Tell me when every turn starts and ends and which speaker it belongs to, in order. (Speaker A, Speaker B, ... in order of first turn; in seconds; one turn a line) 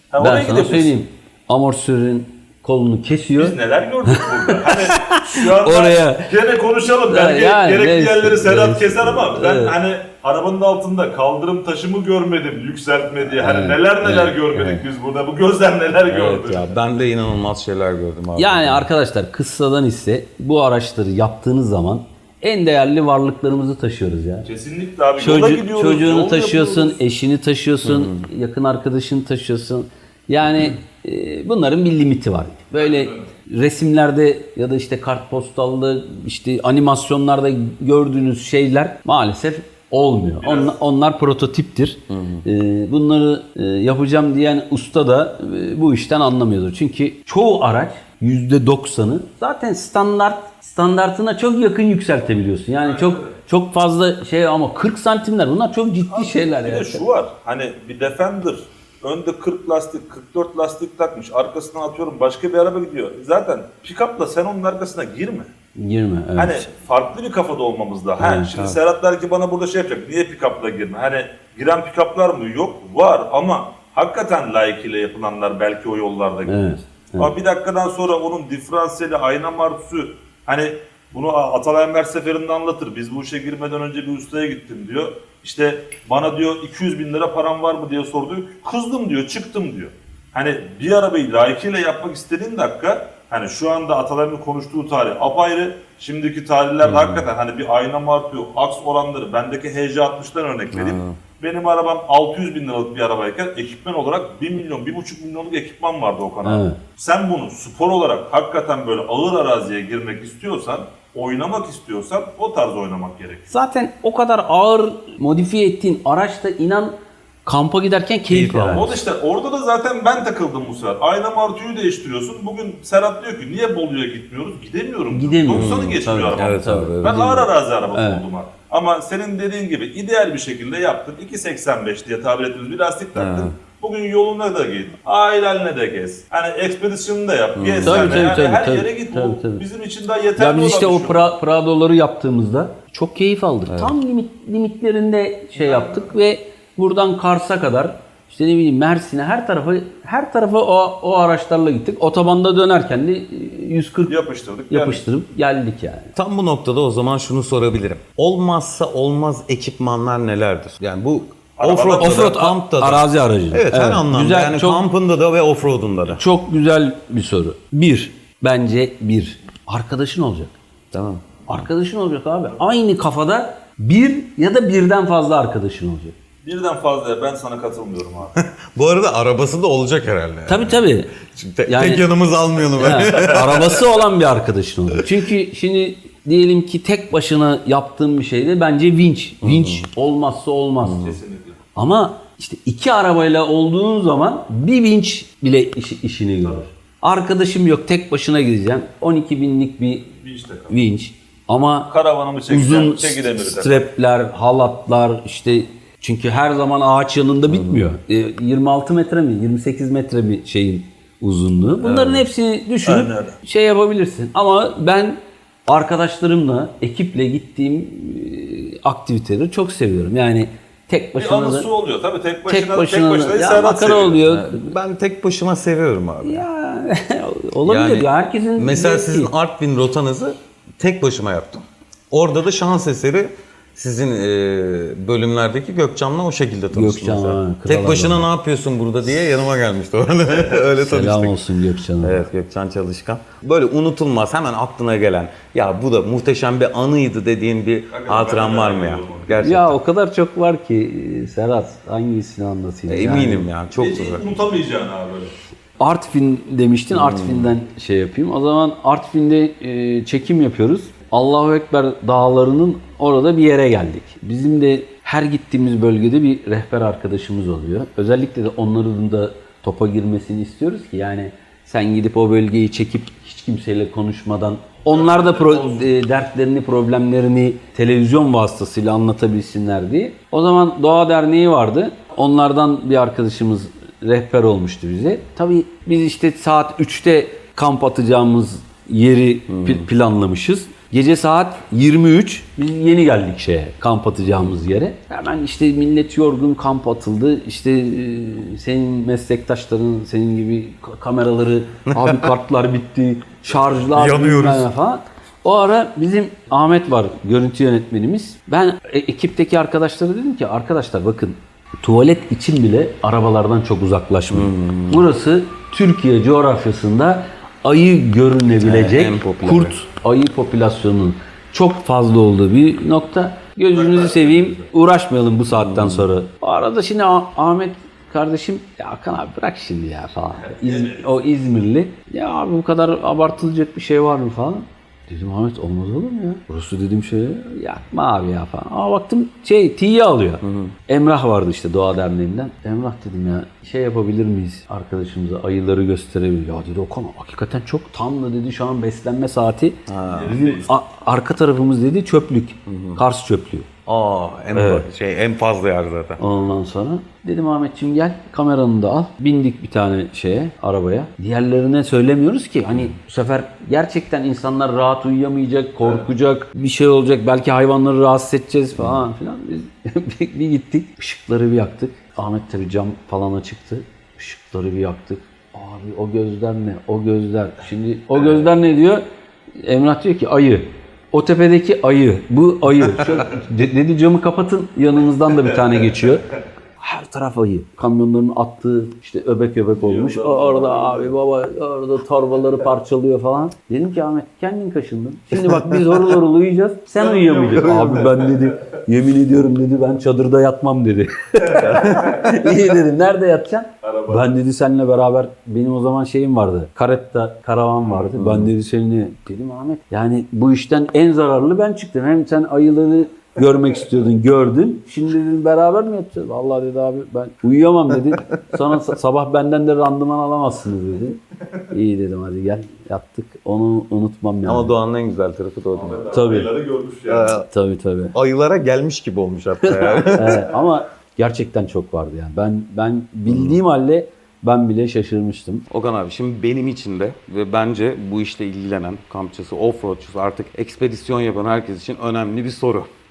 Speaker A: 0.1-0.9
Speaker B: 0.2-6.3
Speaker A: 3.4-16.7
Speaker B: 7.0-9.8
Speaker B: 13.2-14.8
Speaker C: 16.1-18.9
Speaker B: 18.4-24.5
Speaker A: 24.5-27.0
Speaker B: 25.2-57.0
Speaker C: 27.8-28.3
Speaker A: 32.8-33.3
Speaker A: 40.4-40.8
Speaker C: 42.1-42.5
Speaker A: 52.9-53.3
Speaker A: 56.1-65.5
Speaker B: 65.8-66.7
Speaker A: 66.4-113.5
Speaker B: 68.2-68.5
Speaker B: 76.5-77.3
Speaker C: 96.8-97.2
Speaker C: 100.7-101.2
Speaker B: 106.4-106.8
Speaker B: 113.5-119.0
Speaker C: 118.3-119.0
Speaker A: 118.7-141.3
Speaker B: 125.1-128.2
Speaker C: 125.5-127.2
Speaker C: 133.2-133.5
Speaker C: 137.6-138.3
Speaker B: 137.8-139.7
Speaker B: 140.4-154.1
Speaker C: 143.7-144.0
Speaker A: 145.6-146.1
Speaker A: 154.1-155.0
Speaker B: 154.7-156.1
Speaker C: 156.2-166.2
Speaker A: 161.6-162.4
Speaker B: 162.0-164.8
Speaker B: 166.1-170.6
Speaker C: 170.9-171.6
Speaker B: 171.5-176.2
Speaker A: 176.4-178.3
Speaker C: 178.4-183.9
Speaker B: 180.5-181.2
Speaker B: 181.7-182.1
Speaker B: 182.8-191.1
Speaker C: 189.4-189.9
Speaker C: 190.8-191.2
Speaker A: 191.0-191.6
Speaker B: 191.8-200.1
Speaker A: 200.2-200.7
Speaker B: 200.7-201.9
Speaker A: 201.9-203.9
Speaker B: 202.5-221.7
Speaker C: 207.5-207.9
Speaker C: 211.8-212.3
Speaker A: 212.8-213.4
Speaker A: 221.2-224.2
Speaker B: 222.5-224.7
Speaker C: 224.2-226.5
Speaker B: 226.2-229.3
Speaker C: 227.7-241.4
Speaker B: 236.7-238.3
Speaker B: 240.8-242.2
Speaker C: 242.0-249.8
Speaker A: 247.9-249.4
Speaker B: 249.4-253.5
Speaker C: 252.9-254.4
Speaker A: 253.7-255.3
Speaker B: 255.8-353.7
Speaker C: 256.9-257.6
Speaker A: 274.9-275.9
Speaker C: 289.5-289.9
Speaker C: 301.9-302.3
Speaker C: 303.9-304.7
Speaker C: 314.3-315.1
Speaker C: 318.6-319.8
Speaker A: 323.7-324.7
Speaker C: 325.5-326.1
Speaker A: 330.3-331.2
Speaker C: 340.4-340.8
Speaker C: 349.9-350.4
Speaker A: 350.1-350.8
Speaker C: 352.7-353.0
Speaker C: 353.9-356.2
Speaker B: 354.5-354.9
Speaker B: 356.2-379.0
Speaker A: 365.8-366.1
Speaker C: 368.8-369.1
Speaker B: 379.6-386.3
Speaker B: 386.8-424.8
Speaker A: 389.8-391.1
Speaker C: 395.3-396.1
Speaker A: 397.0-398.5
Speaker A: 401.5-402.4
Speaker A: 403.8-404.3
Speaker C: 408.1-408.5
Speaker C: 424.4-426.2
Speaker A: 425.7-427.4
Speaker B: 426.1-426.5
Speaker C: 427.1-427.5
Speaker B: 427.5-428.1
Speaker C: 428.1-430.5
Speaker B: 429.7-435.6
Speaker C: 433.3-433.6
Speaker C: 435.7-442.9